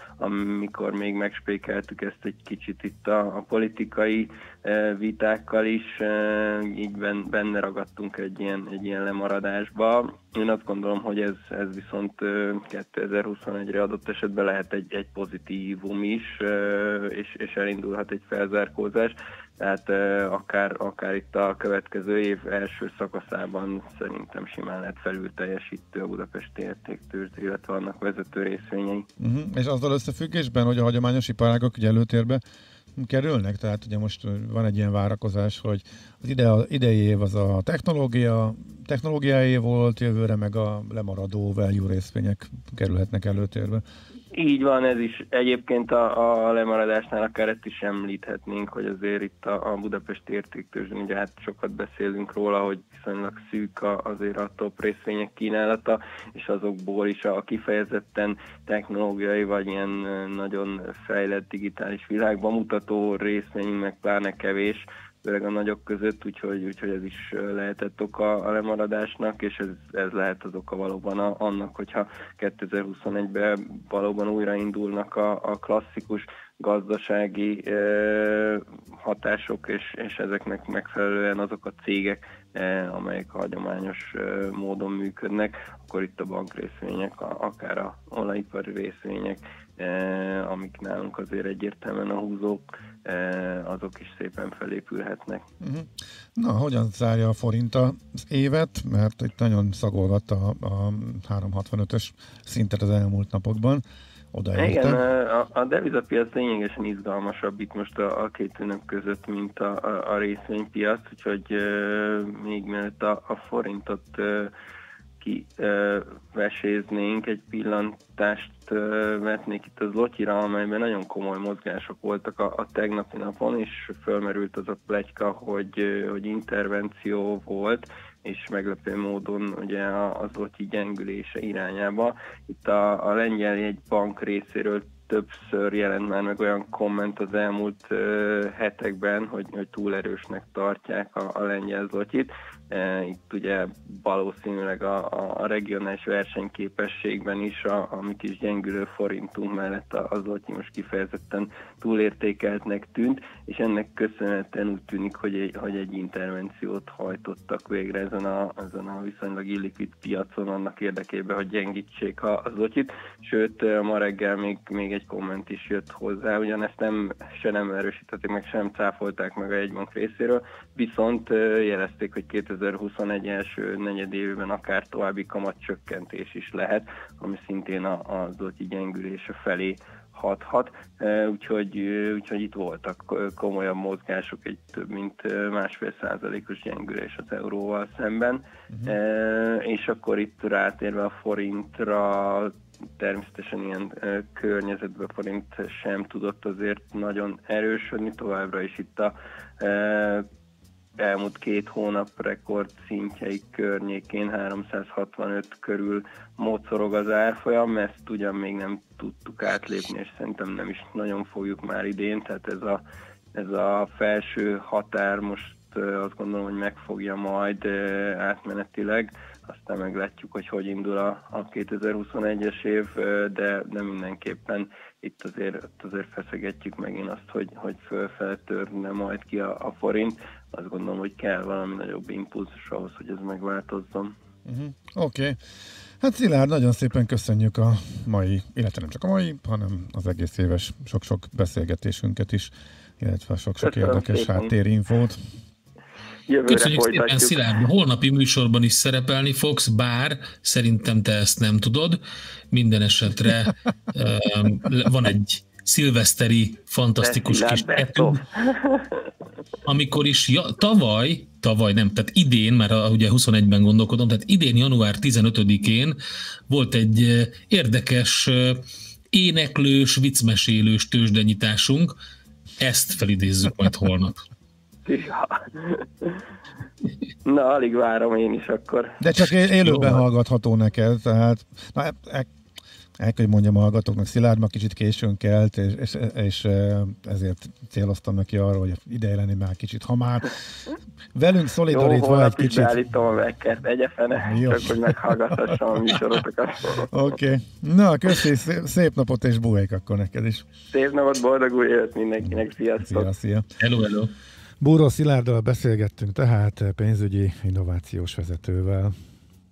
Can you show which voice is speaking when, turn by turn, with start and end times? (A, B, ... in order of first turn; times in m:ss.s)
0:00.2-0:29.1 A
0:29.2-0:32.4 B
0:33.0-0:43.8 B
0:44.3-1:35.4 A
1:35.6-1:45.0 B
1:44.6-1:54.5 A
1:55.2-3:20.2 A
3:21.0-3:32.8 A
3:33.3-3:54.1 A
3:54.4-3:55.4 B
3:56.0-4:05.2 B
4:03.6-4:04.5 A
4:06.3-4:07.4 A
4:06.5-4:12.0 C
4:12.5-4:18.2 C
4:17.0-4:19.1 A
4:19.7-4:26.0 C
4:26.5-4:28.6 C
4:29.1-4:31.9 C
4:32.6-4:34.2 C
4:34.8-4:36.2 A
4:37.2-4:39.0 A
4:39.0-4:42.3 B
4:39.6-4:39.9 C
4:43.0-4:50.4 B
4:51.2-4:52.8 B
4:51.7-4:56.9 A
4:54.2-4:55.4 B
4:56.9-5:00.4 B
5:00.7-5:03.1 A
5:02.2-5:03.4 B
5:03.6-5:04.1 C
5:04.6-5:08.9 B